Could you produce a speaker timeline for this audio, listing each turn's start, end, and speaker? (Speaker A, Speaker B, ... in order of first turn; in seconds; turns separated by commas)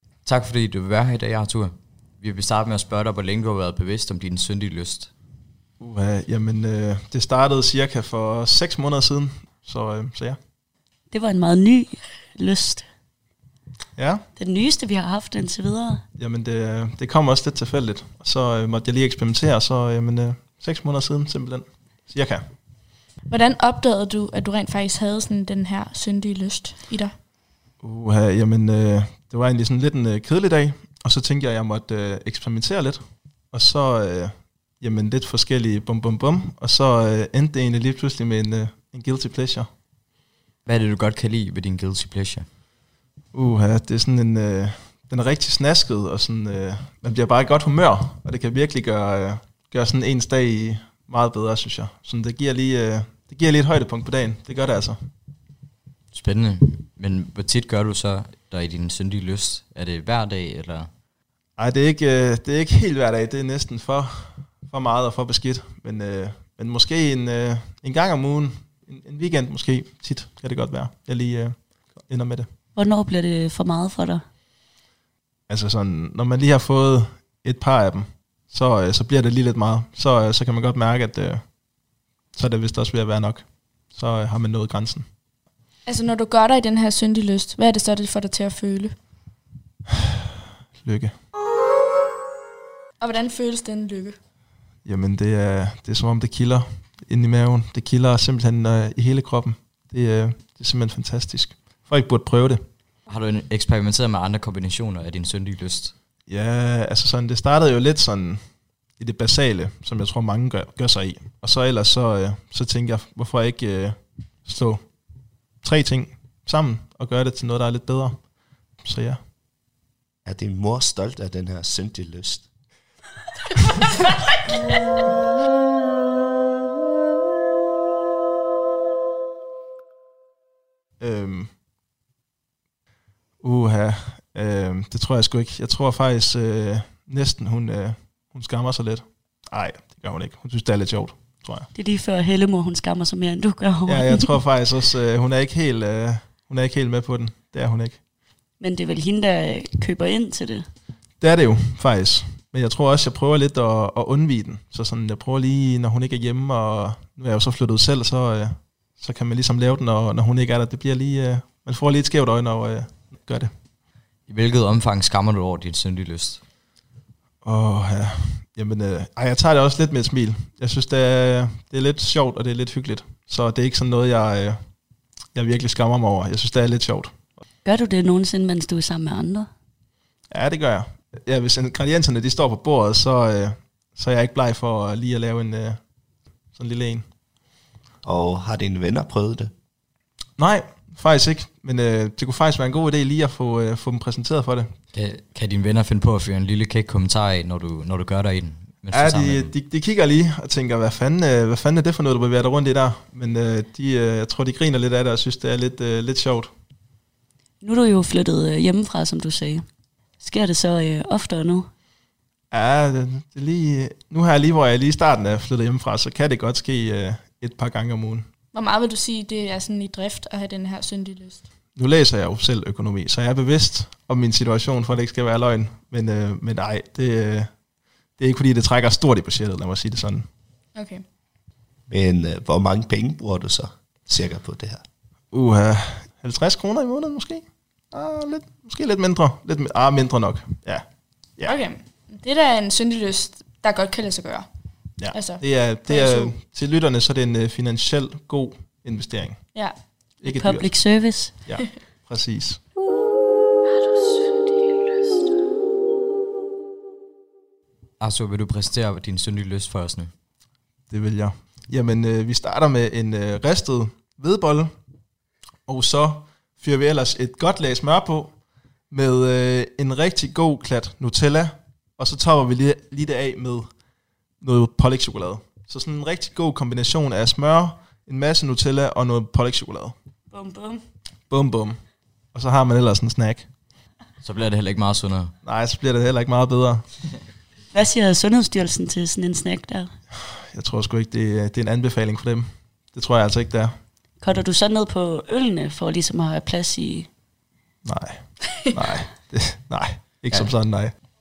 Speaker A: 0.2-5.1, Speaker B: 5.8-10.4, Speaker C: 11.1-12.9, Speaker B: 14.0-14.2, Speaker C: 14.4-16.0, Speaker B: 16.2-22.5, Speaker D: 23.3-27.2, Speaker B: 27.8-39.7, Speaker A: 40.6-42.5, Speaker B: 43.3-55.1, Speaker A: 56.1-60.9, Speaker B: 61.6-72.5, Speaker C: 72.8-74.2, Speaker B: 75.5-81.6, Speaker B: 82.3-85.1, Speaker D: 85.8-89.0, Speaker B: 90.8-91.2, Speaker D: 93.0-94.2, Speaker B: 94.8-102.6, Speaker A: 103.1-106.0, Speaker B: 106.3-119.2, Speaker E: 120.2-122.5, Speaker B: 131.0-131.5, Speaker B: 133.4-141.7, Speaker C: 141.7-144.4, Speaker B: 143.9-148.0, Speaker C: 148.6-150.7, Speaker B: 151.2-163.5, Speaker A: 164.3-166.4, Speaker B: 167.4-177.2, Speaker C: 177.6-179.5, Speaker B: 180.3-185.8, Speaker B: 186.5-187.1, Speaker E: 188.0-189.5, Speaker B: 190.4-194.8, Speaker A: 194.9-199.5, Speaker B: 198.9-206.5, Speaker C: 207.6-209.7, Speaker C: 210.2-211.7, Speaker B: 212.5-218.3, Speaker D: 218.5-221.5, Speaker B: 221.7-227.6, Speaker B: 228.2-230.3, Speaker D: 230.8-231.0, Speaker E: 231.9-234.8, Speaker B: 235.3-241.5, Speaker D: 241.4-244.5, Speaker B: 245.0-249.6, Speaker D: 245.1-246.3, Speaker D: 249.5-249.8, Speaker B: 250.2-252.6, Speaker C: 250.3-251.4, Speaker A: 258.0-260.1, Speaker B: 260.9-264.7, Speaker B: 265.6-273.8, Speaker B: 274.4-280.0, Speaker C: 280.3-280.8, Speaker B: 281.3-283.5, Speaker A: 284.2-285.3, Speaker B: 285.4-286.9, Speaker C: 287.7-290.0, Speaker B: 290.5-293.9, Speaker C: 294.2-297.1, Speaker B: 297.9-301.0, Speaker D: 298.4-298.7